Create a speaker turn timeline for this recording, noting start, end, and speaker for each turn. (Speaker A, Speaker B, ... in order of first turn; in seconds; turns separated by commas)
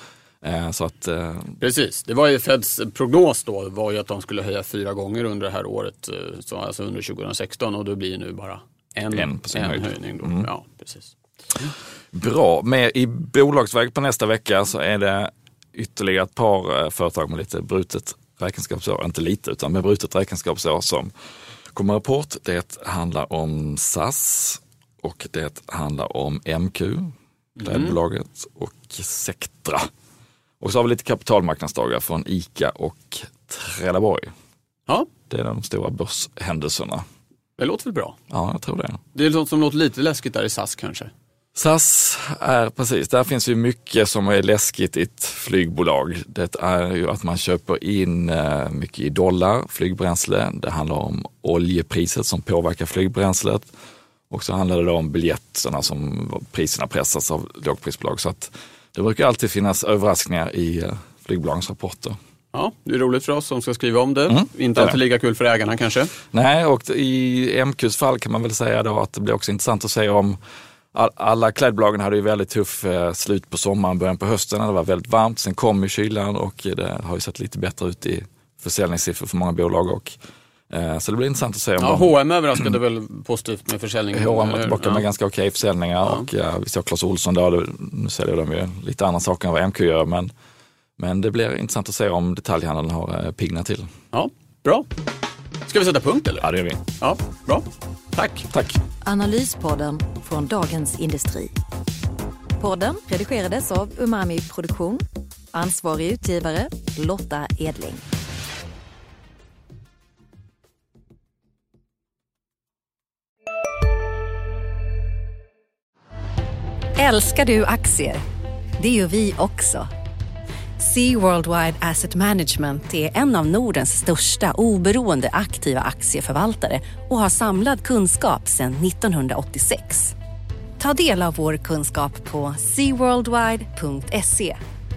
Speaker A: 0.4-1.6, Speaker B: 1.6-11.7, Speaker A: 9.1-10.5, Speaker A: 12.1-21.1, Speaker A: 21.7-27.1, Speaker B: 27.6-27.9, Speaker A: 27.6-29.9, Speaker A: 30.6-34.3, Speaker A: 35.3-37.0, Speaker B: 37.6-38.1, Speaker A: 38.3-39.0, Speaker B: 39.1-41.1, Speaker A: 41.5-53.7, Speaker A: 54.3-62.1, Speaker B: 62.5-66.1, Speaker A: 64.3-65.0, Speaker A: 66.3-70.4, Speaker A: 70.9-80.2, Speaker A: 80.7-82.1, Speaker B: 81.8-85.0, Speaker A: 84.1-90.3, Speaker A: 91.0-93.9, Speaker B: 94.1-94.9, Speaker B: 95.7-96.4, Speaker A: 96.4-96.8, Speaker B: 97.0-98.5, Speaker A: 98.5-98.8, Speaker C: 99.0-101.5, Speaker C: 102.6-108.0, Speaker D: 117.0-118.2, Speaker D: 118.8-119.9, Speaker D: 120.8-130.1, Speaker D: 130.8-134.6